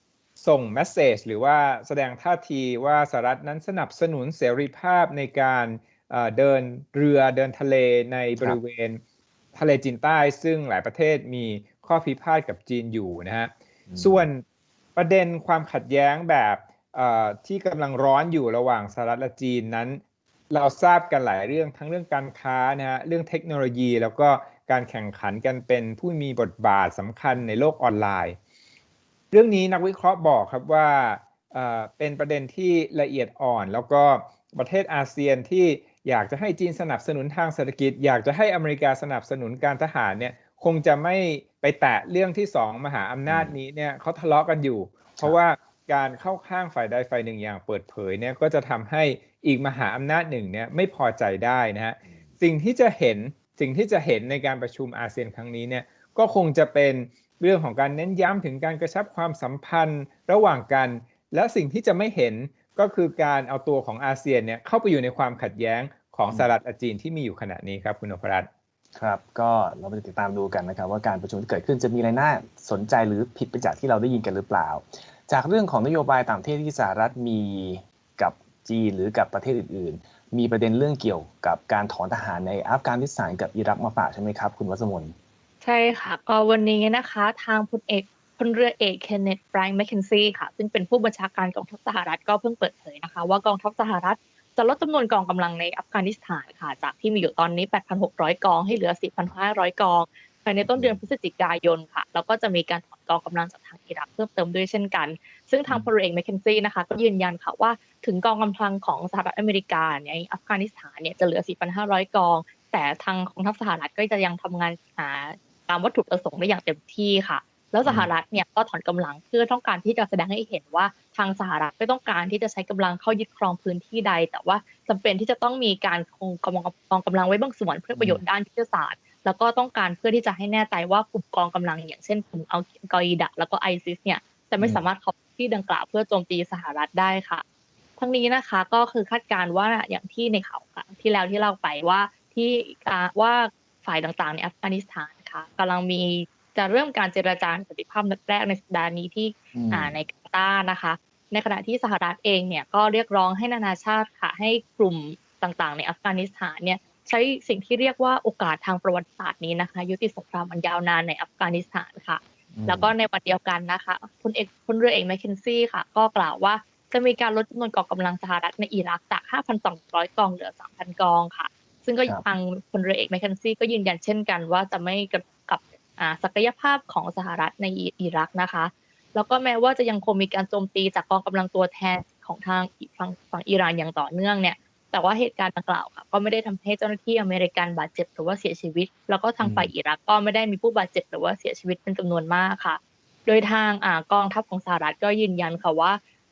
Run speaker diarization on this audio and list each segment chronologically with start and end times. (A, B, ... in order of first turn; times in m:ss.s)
0:00.4-0:09.0 A
0:09.5-0:14.4 A
0:13.9-0:14.3 B
0:15.0-0:28.4 A
0:29.3-1:08.5 A
0:43.3-0:43.6 B
1:09.0-1:25.1 B
1:25.6-2:17.4 C
1:40.6-1:41.0 B
1:57.8-1:58.1 B
2:07.9-2:08.2 B
2:18.0-3:16.0 C
2:29.5-2:30.0 B
2:42.5-2:42.9 B
3:09.4-3:09.7 B